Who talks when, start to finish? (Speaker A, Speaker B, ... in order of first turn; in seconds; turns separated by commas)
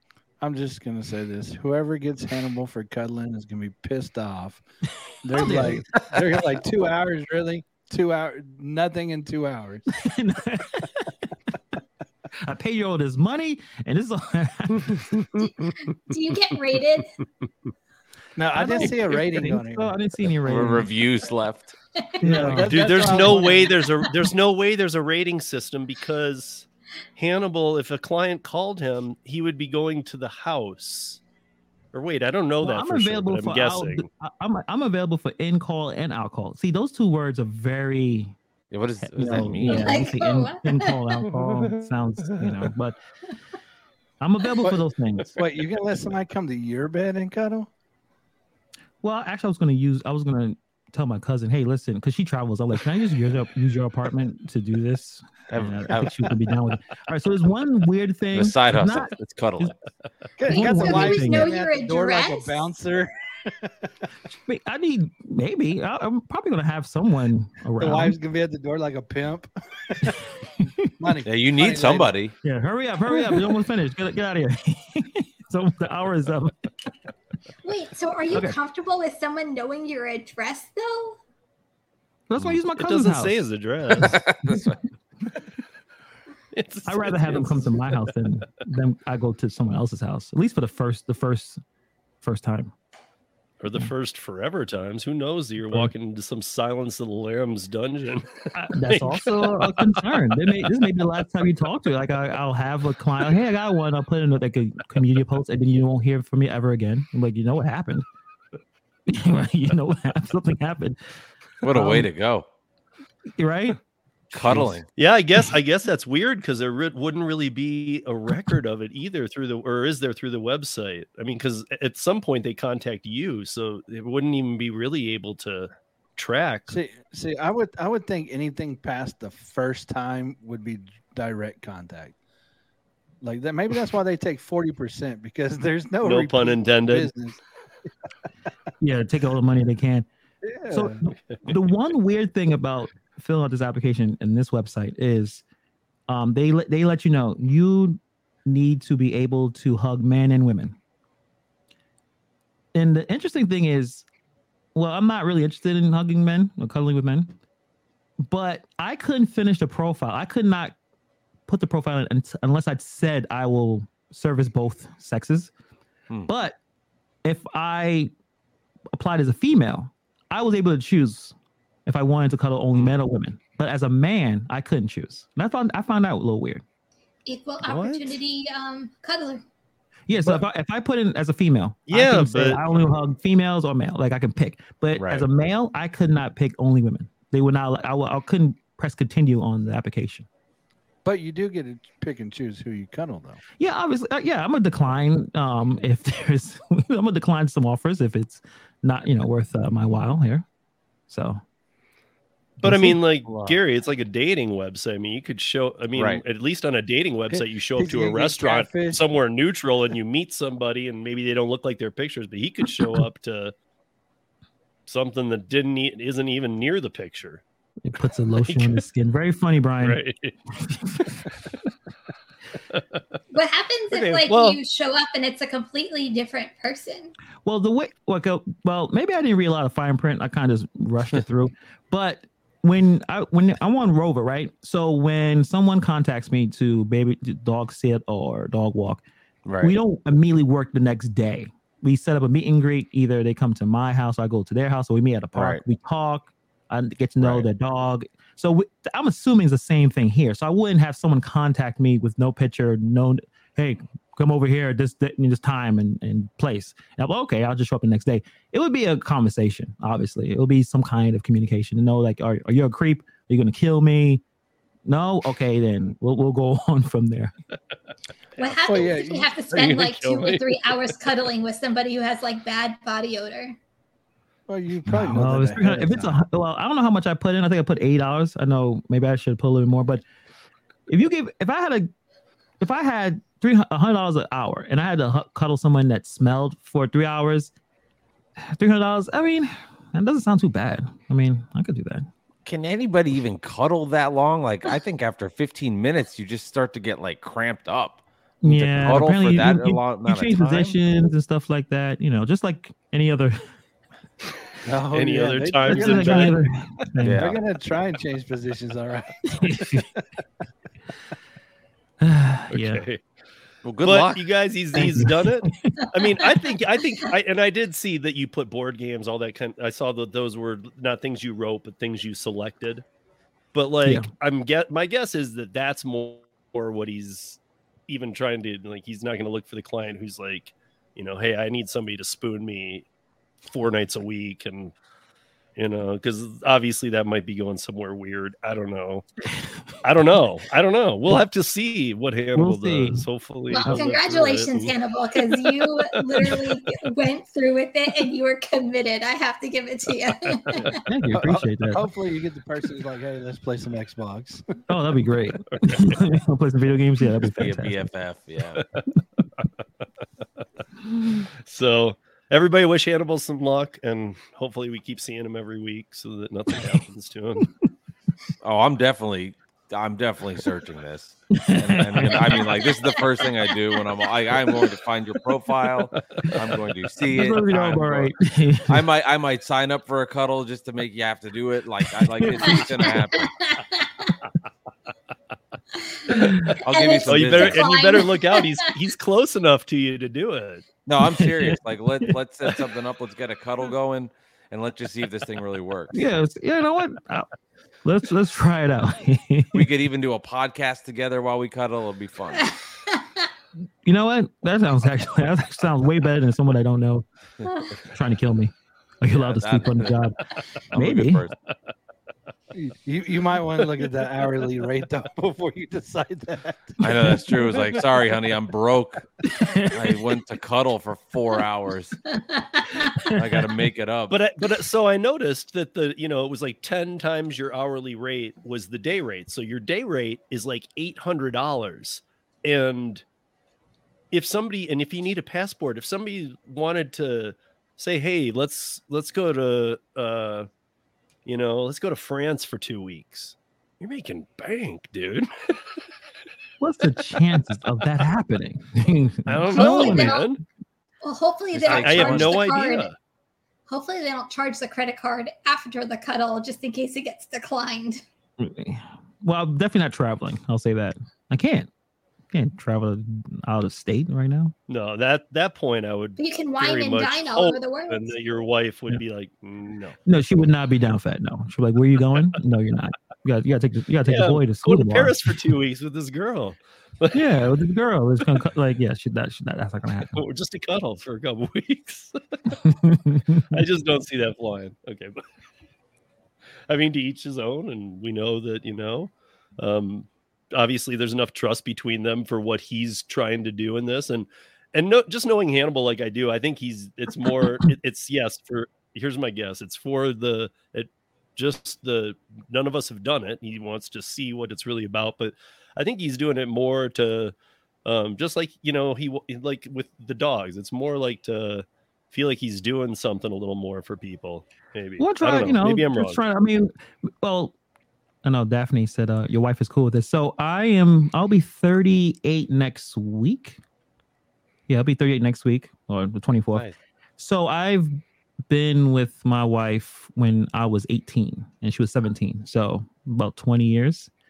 Speaker A: 0.4-4.6, Speaker A: 5.2-9.9, Speaker B: 5.3-5.8, Speaker B: 10.0-11.3, Speaker B: 12.4-15.3, Speaker C: 15.1-15.7, Speaker D: 15.4-17.1, Speaker A: 18.4-20.0, Speaker B: 18.5-20.9, Speaker E: 20.4-21.8, Speaker D: 22.0-22.6, Speaker B: 22.2-23.5, Speaker A: 22.2-23.7, Speaker C: 22.7-31.2, Speaker C: 31.9-34.1, Speaker B: 32.6-38.4, Speaker E: 38.7-40.1, Speaker B: 39.0-43.0, Speaker D: 39.6-41.0, Speaker C: 41.4-41.7, Speaker B: 44.2-45.3, Speaker A: 45.3-47.7, Speaker B: 49.0-59.7, Speaker E: 55.5-56.3, Speaker E: 58.3-59.8, Speaker A: 60.4-64.1, Speaker B: 60.5-61.5, Speaker D: 60.5-62.6, Speaker B: 64.5-68.2, Speaker A: 67.8-72.1, Speaker E: 71.2-72.3, Speaker B: 72.4-76.7, Speaker D: 77.6-81.2, Speaker B: 82.3-83.4, Speaker C: 82.8-84.2, Speaker B: 84.0-84.6, Speaker E: 84.0-84.8, Speaker C: 86.5-88.1, Speaker B: 86.8-91.6, Speaker B: 92.2-92.7, Speaker C: 93.6-100.0, Speaker B: 95.7-95.9, Speaker B: 98.5-108.1, Speaker B: 109.1-111.0, Speaker E: 111.6-112.5, Speaker B: 111.7-112.1, Speaker B: 113.4-113.8, Speaker E: 114.3-114.9, Speaker B: 114.4-114.8, Speaker C: 115.0-126.8, Speaker A: 126.7-132.2, Speaker A: 133.2-137.4, Speaker C: 136.0-137.1, Speaker B: 138.8-140.1, Speaker A: 140.4-141.0, Speaker B: 140.7-145.4, Speaker B: 146.1-150.8, Speaker B: 152.8-154.1, Speaker B: 154.8-157.3, Speaker B: 158.2-160.8, Speaker B: 161.5-165.5, Speaker B: 166.3-166.6, Speaker B: 167.2-168.1, Speaker B: 168.9-171.3, Speaker B: 171.9-176.6, Speaker D: 177.3-179.4, Speaker C: 177.6-178.2, Speaker B: 180.1-190.3, Speaker C: 181.9-182.8, Speaker E: 185.0-185.3, Speaker A: 191.1-193.4, Speaker B: 193.6-200.5, Speaker B: 201.1-201.4, Speaker C: 202.6-213.5, Speaker B: 202.6-203.0, Speaker E: 203.3-203.6, Speaker E: 206.0-206.2, Speaker A: 207.3-209.0, Speaker C: 214.9-217.4, Speaker B: 217.8-220.0, Speaker C: 218.4-218.8, Speaker C: 219.8-220.4, Speaker B: 220.6-221.3, Speaker C: 221.3-221.6, Speaker C: 222.7-223.0, Speaker D: 223.3-227.1, Speaker C: 223.9-224.6, Speaker B: 227.4-239.0, Speaker E: 239.4-239.8, Speaker B: 239.6-264.2, Speaker E: 245.3-245.6, Speaker E: 247.2-247.5, Speaker B: 264.9-267.3, Speaker D: 268.4-273.6, Speaker A: 268.7-269.3, Speaker C: 269.5-270.9, Speaker A: 274.5-276.2, Speaker B: 274.9-280.0, Speaker B: 280.9-281.9, Speaker B: 282.6-287.5, Speaker B: 288.4-292.1, Speaker E: 292.4-300.8, Speaker B: 298.4-303.4, Speaker A: 304.6-306.4, Speaker C: 304.9-306.4, Speaker B: 305.7-307.3, Speaker E: 307.0-307.4, Speaker A: 307.1-310.0, Speaker B: 309.3-309.9, Speaker B: 312.0-312.9, Speaker C: 312.5-313.0, Speaker E: 313.6-314.2, Speaker C: 313.8-322.8, Speaker B: 314.8-315.9, Speaker C: 323.5-332.9, Speaker B: 323.9-324.1, Speaker C: 333.5-334.7, Speaker C: 335.6-339.1, Speaker C: 339.8-346.7, Speaker B: 342.4-343.1, Speaker D: 343.5-350.8, Speaker C: 350.3-350.6, Speaker B: 350.8-351.9, Speaker A: 351.1-354.4, Speaker B: 354.7-357.9, Speaker E: 357.2-358.7, Speaker B: 361.0-361.2, Speaker C: 361.4-367.5, Speaker E: 368.4-378.1, Speaker B: 371.4-372.4, Speaker B: 377.1-378.9, Speaker E: 378.7-383.4, Speaker B: 382.2-382.6, Speaker D: 382.4-384.2, Speaker D: 385.8-388.8, Speaker B: 386.1-386.6, Speaker E: 386.6-387.8, Speaker C: 387.1-390.6, Speaker E: 390.9-396.0, Speaker B: 391.0-391.6, Speaker B: 395.9-397.3, Speaker B: 397.8-399.7, Speaker E: 399.5-402.6, Speaker D: 402.4-403.3, Speaker B: 403.9-407.1, Speaker E: 407.4-407.8, Speaker B: 407.9-410.2, Speaker E: 409.1-410.0, Speaker E: 410.6-411.4, Speaker B: 410.7-411.3, Speaker A: 412.5-416.9, Speaker E: 416.8-419.1, Speaker B: 419.3-419.8, Speaker E: 419.6-422.0, Speaker D: 422.1-423.1, Speaker E: 423.1-424.2, Speaker C: 424.1-433.0, Speaker C: 434.1-440.5, Speaker C: 441.3-445.8, Speaker B: 446.6-450.2, Speaker C: 449.3-450.4, Speaker D: 449.6-450.3, Speaker D: 451.0-452.9, Speaker E: 451.5-452.5, Speaker C: 451.6-452.9, Speaker D: 453.7-458.0, Speaker B: 458.4-461.7, Speaker B: 462.3-464.5, Speaker C: 464.7-470.0, Speaker D: 466.2-468.3, Speaker B: 470.1-475.4, Speaker C: 474.1-477.2, Speaker B: 477.1-480.2, Speaker C: 480.1-482.5, Speaker B: 482.6-483.6, Speaker C: 483.5-485.2, Speaker C: 486.7-516.2, Speaker B: 515.0-517.5, Speaker B: 518.2-523.6, Speaker B: 524.7-526.7, Speaker B: 527.2-534.1